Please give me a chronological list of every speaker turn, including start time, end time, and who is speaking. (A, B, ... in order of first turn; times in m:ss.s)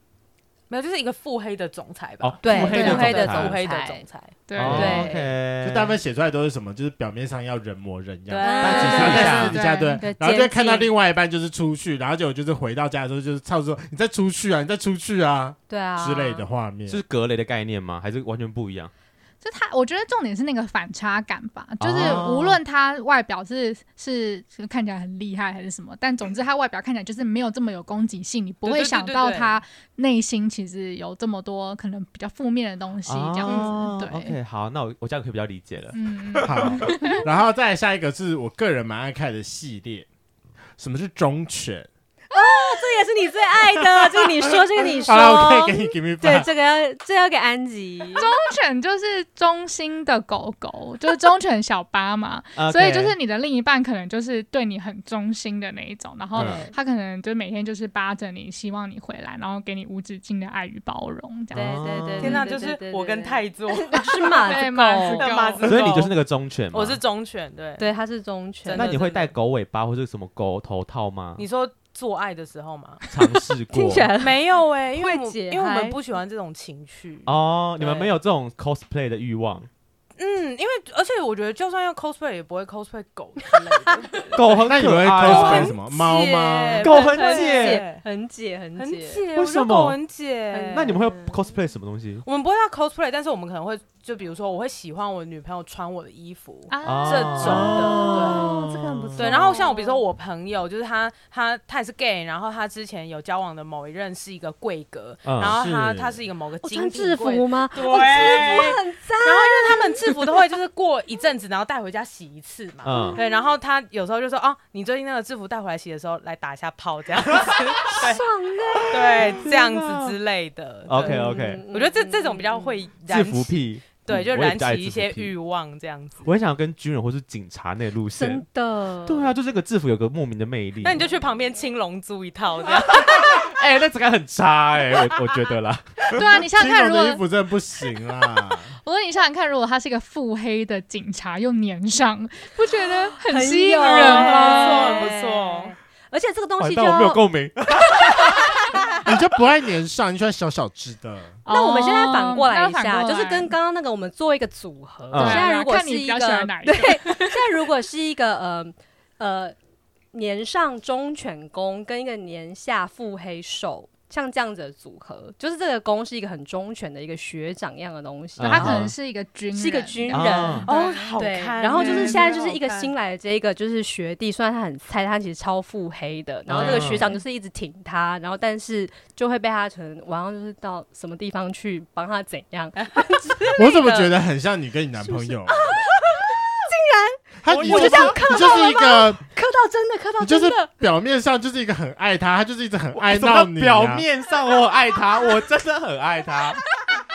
0:00.7-0:05.1 A
0:02.2-0:03.6 B
0:02.4-0:04.0 C
0:02.7-0:03.0 D
0:04.5-0:05.0 D
0:04.6-0:06.0 B
0:04.6-0:05.3 C
0:05.6-0:17.0 E
0:08.3-0:09.3 A
0:08.4-0:10.9 C
0:08.6-0:09.6 B
0:09.1-0:10.0 D
0:15.7-0:16.4 C
0:16.9-0:18.9 B
0:19.4-0:34.4 D
0:21.8-0:22.6 B
0:28.6-0:29.6 A
0:33.0-0:37.2 B
0:33.5-0:33.8 C
0:35.9-0:37.2 D
0:36.4-0:40.1 E
0:40.8-0:41.9 E
0:42.3-0:48.3 C
0:45.0-0:46.5 E
0:48.2-1:01.8 D
0:52.6-0:53.2 B
0:56.3-0:56.7 B
0:56.4-0:56.7 C
1:01.5-1:02.5 B
1:01.5-1:05.6 C
1:02.2-1:06.2 A
1:04.2-1:05.7 D
1:05.6-1:07.0 B
1:06.7-1:07.9 A
1:07.8-1:09.0 C
1:08.6-1:09.3 A
1:08.7-1:11.4 B
1:11.4-1:13.0 A
1:13.1-1:14.1 B
1:13.1-1:16.0 C
1:14.2-1:18.1 A
1:17.2-1:19.7 B
1:20.2-1:24.6 A
1:24.3-1:25.8 B
1:24.6-1:26.9 E
1:25.2-1:28.0 A
1:25.3-1:25.7 C
1:26.8-1:29.3 C
1:26.8-1:27.8 B
1:28.8-1:31.0 A
1:29.3-1:30.0 B
1:30.5-1:31.4 C
1:30.7-1:32.2 B
1:32.2-1:38.5 A
1:36.7-1:37.7 D
1:36.8-1:38.4 B
1:37.6-1:40.0 C
1:37.8-1:39.3 E
1:39.2-1:58.2 A
1:45.2-1:45.6 B
1:45.4-1:46.2 E
1:46.6-1:50.1 C
1:52.8-1:53.2 B
1:52.9-1:53.3 C
1:57.9-1:59.2 C
1:58.9-2:06.2 A
1:59.1-2:00.2 B
2:00.9-2:01.6 B
2:01.0-2:02.8 C
2:03.0-2:05.3 B
2:06.2-2:08.4 B
2:08.1-2:09.3 C
2:09.0-2:11.0 B
2:10.8-2:13.4 A
2:12.8-2:16.3 B
2:16.1-2:17.2 D
2:16.4-2:18.7 E
2:18.8-2:25.1 D
2:23.2-2:27.2 C
2:23.8-2:25.7 A
2:26.6-2:28.8 B
2:27.8-2:29.0 C
2:29.0-2:31.4 E
2:31.4-2:33.5 D
2:31.5-2:39.6 C
2:35.1-2:35.5 B
2:35.1-2:37.4 D
2:40.1-2:48.8 C
2:48.4-2:48.9 B
2:48.4-2:51.1 D
2:49.5-3:04.1 C
2:50.1-2:50.6 B
2:50.6-2:52.9 A
2:51.7-2:52.5 D
2:56.5-2:57.1 B
2:56.6-2:57.2 A
3:03.4-3:04.1 A
3:03.6-3:05.7 E
3:05.0-3:10.7 C
3:07.4-3:09.2 E
3:07.5-3:08.6 B
3:10.2-3:14.0 E
3:12.9-3:16.6 B